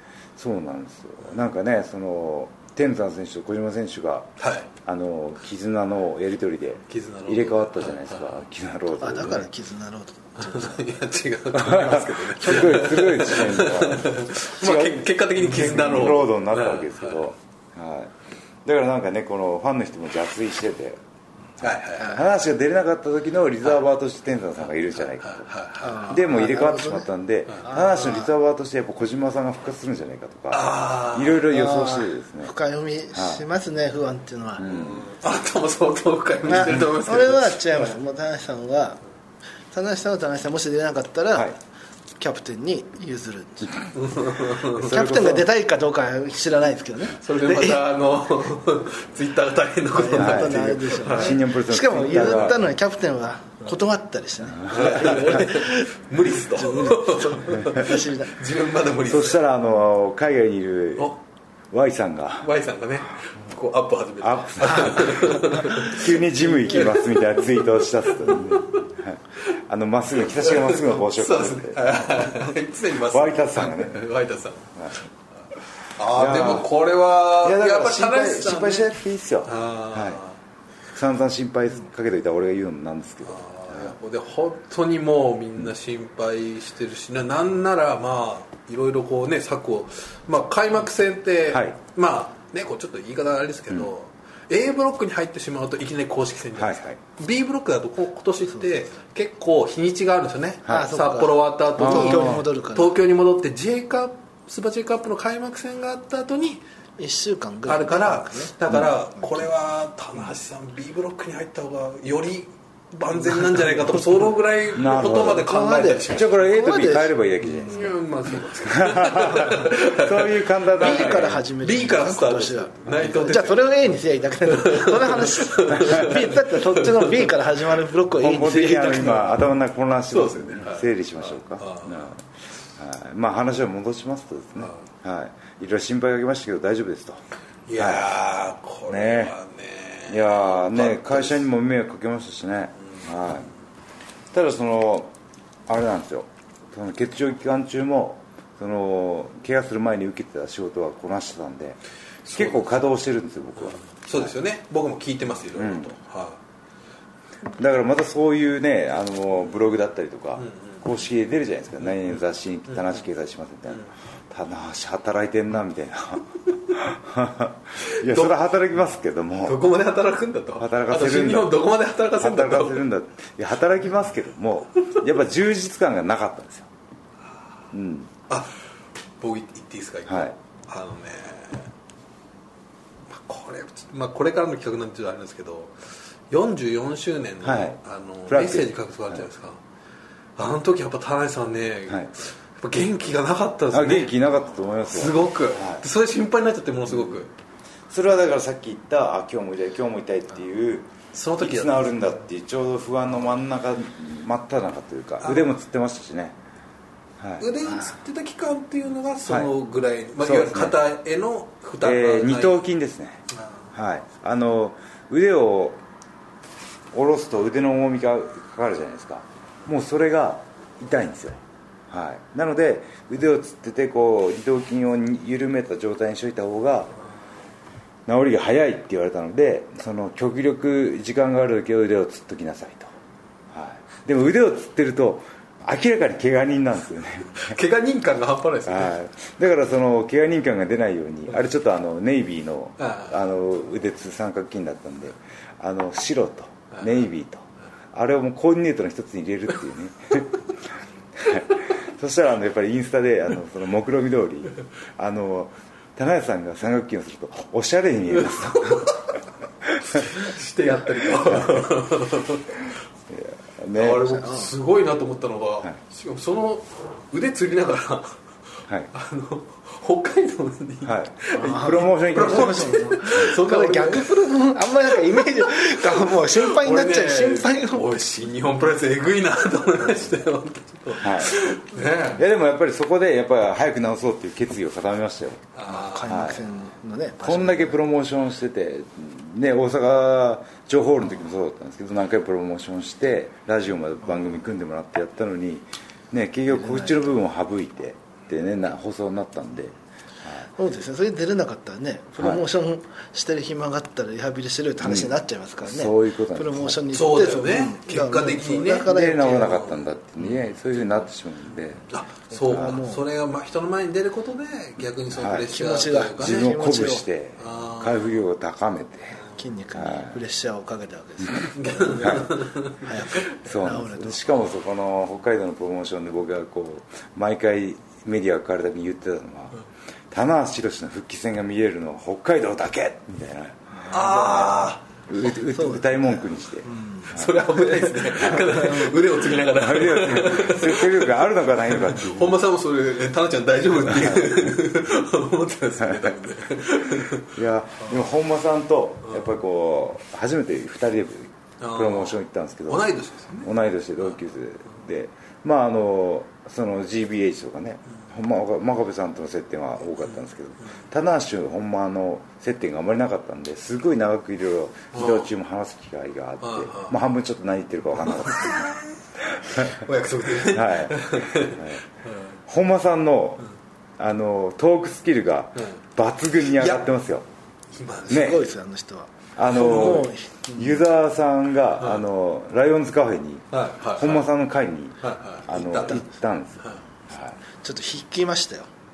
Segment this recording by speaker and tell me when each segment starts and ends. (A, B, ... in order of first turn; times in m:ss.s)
0:00.4-0:04.3 A
0:04.4-0:04.7 B
0:04.8-0:09.5 A
0:06.9-0:08.3 B
0:09.0-0:11.0 C
0:10.4-0:17.2 B
0:11.5-0:18.1 A
0:18.6-0:21.0 A
0:21.6-0:25.5 A
0:21.6-0:22.2 B
0:25.0-0:26.1 B
0:25.8-0:27.1 C
0:26.0-0:32.5 A
0:27.6-0:28.3 C
0:30.5-0:31.5 B
0:31.5-0:34.7 C
0:33.1-0:33.4 A
0:34.6-0:35.1 A
0:34.7-0:37.9 B
0:36.5-0:39.0 C
0:39.7-0:41.5 C
0:42.2-0:43.9 C
0:44.0-0:45.1 B
0:44.7-0:45.4 A
0:44.7-0:47.8 C
0:47.2-0:51.4 B
0:49.9-0:58.4 C
0:50.1-0:52.6 A
0:54.7-0:59.4 B
0:59.0-1:01.1 A
1:01.7-1:02.5 A
1:02.4-1:07.3 B
1:04.2-1:12.4 A
1:08.2-1:08.9 B
1:10.3-1:14.7 B
1:13.1-1:14.1 A
1:16.0-1:18.9 B
1:16.1-1:16.7 A
1:17.4-1:20.2 A
1:19.5-1:20.4 B
1:20.9-1:24.0 A
1:23.3-1:46.6 B
1:31.5-1:31.8 A
1:36.6-1:37.0 A
1:40.7-1:42.9 C
1:41.8-1:42.4 A
1:47.0-1:48.5 C
1:47.7-1:56.5 B
1:54.7-1:57.9 A
1:55.2-1:57.9 C
1:57.6-2:03.7 B
1:58.7-2:01.4 A
2:00.7-2:09.4 C
2:04.5-2:07.3 B
2:05.8-2:06.1 A
2:08.2-2:12.2 A
2:10.1-2:12.1 B
2:12.8-2:17.2 A
2:17.7-2:21.5 B
2:17.8-2:18.1 A
2:18.9-2:19.4 A
2:20.1-2:23.5 A
2:23.0-2:23.3 B
2:24.3-2:25.1 A
2:25.7-2:34.3 A
2:32.2-2:32.8 B
2:33.6-2:36.4 B
2:35.5-2:35.9 A
2:37.6-2:49.6 A
2:40.4-2:40.8 B
2:47.9-2:48.4 B
2:49.5-2:52.8 B
2:50.6-2:51.6 A
2:52.2-2:56.7 A
2:57.7-2:58.1 A
2:58.3-2:58.5 B
2:59.2-3:01.7 B
3:00.1-3:00.4 A
3:03.1-3:05.8 B
3:06.3-3:09.6 B
3:07.4-3:09.2 A
3:10.4-3:14.1 B
3:13.7-3:15.8 A
3:14.9-3:17.3 B
3:16.9-3:17.2 A
3:17.9-3:26.4 A
3:21.1-3:22.0 B
3:25.2-3:25.5 B
3:27.2-3:27.5 A
3:27.4-3:32.6 B
3:30.2-3:30.8 A
3:31.8-3:33.2 A
3:33.7-3:35.8 A
3:36.9-3:46.9 A
3:48.1-3:52.9 A
3:53.5-3:57.5 A
3:57.4-3:59.0 B
3:58.6-4:10.4 A
4:02.8-4:03.2 B
4:11.2-4:18.9 A
4:18.3-4:19.0 B
4:19.7-4:20.1 A
4:19.9-4:22.6 B
4:21.2-4:21.7 A
4:23.1-4:24.2 A
4:23.8-4:28.2 B
4:24.2-4:24.5 C
4:28.9-4:34.2 B
4:30.8-4:32.8 A
4:31.3-4:37.9 C
4:34.9-4:42.2 B
4:41.0-4:41.4 A
4:42.1-4:45.5 A
4:45.5-4:46.4 B
4:45.6-4:47.8 C
4:46.1-4:46.4 A
4:47.2-5:00.5 A
4:56.5-4:57.1 C
5:00.6-5:09.5 C
5:04.8-5:06.8 A
5:06.9-5:10.5 B
5:08.9-5:11.8 A
5:11.9-5:16.7 B
5:12.3-5:13.0 C
5:15.1-5:15.5 A
5:15.4-5:17.0 C
5:16.2-5:19.2 A
5:17.4-5:18.2 B
5:19.4-5:24.3 C
5:19.7-5:20.2 A
5:21.4-5:22.3 A
5:21.6-5:22.9 B
5:23.3-5:29.6 A
5:30.1-5:34.3 A
5:33.8-5:34.7 C
5:33.9-5:34.8 B
5:35.1-5:37.4 A
5:35.5-5:39.0 C
5:37.0-5:47.4 B
5:38.1-5:38.6 A
5:39.5-5:42.4 A
5:44.0-5:44.3 A
5:47.3-6:08.7 A
5:51.6-5:53.5 B
6:04.9-6:05.3 B
6:06.4-6:07.0 B
6:08.1-6:08.8 B
6:09.3-6:09.8 A
6:09.5-6:12.4 B
6:10.4-6:11.8 A
6:12.5-6:13.4 A
6:14.0-6:17.2 A
6:16.6-6:16.8 B
6:17.7-6:18.3 B
6:18.1-6:20.8 C
6:18.1-6:18.5 A
6:19.4-6:27.4 A
6:19.5-6:20.1 B
6:23.5-6:24.3 B
6:25.0-6:26.0 B
6:27.6-6:28.7 C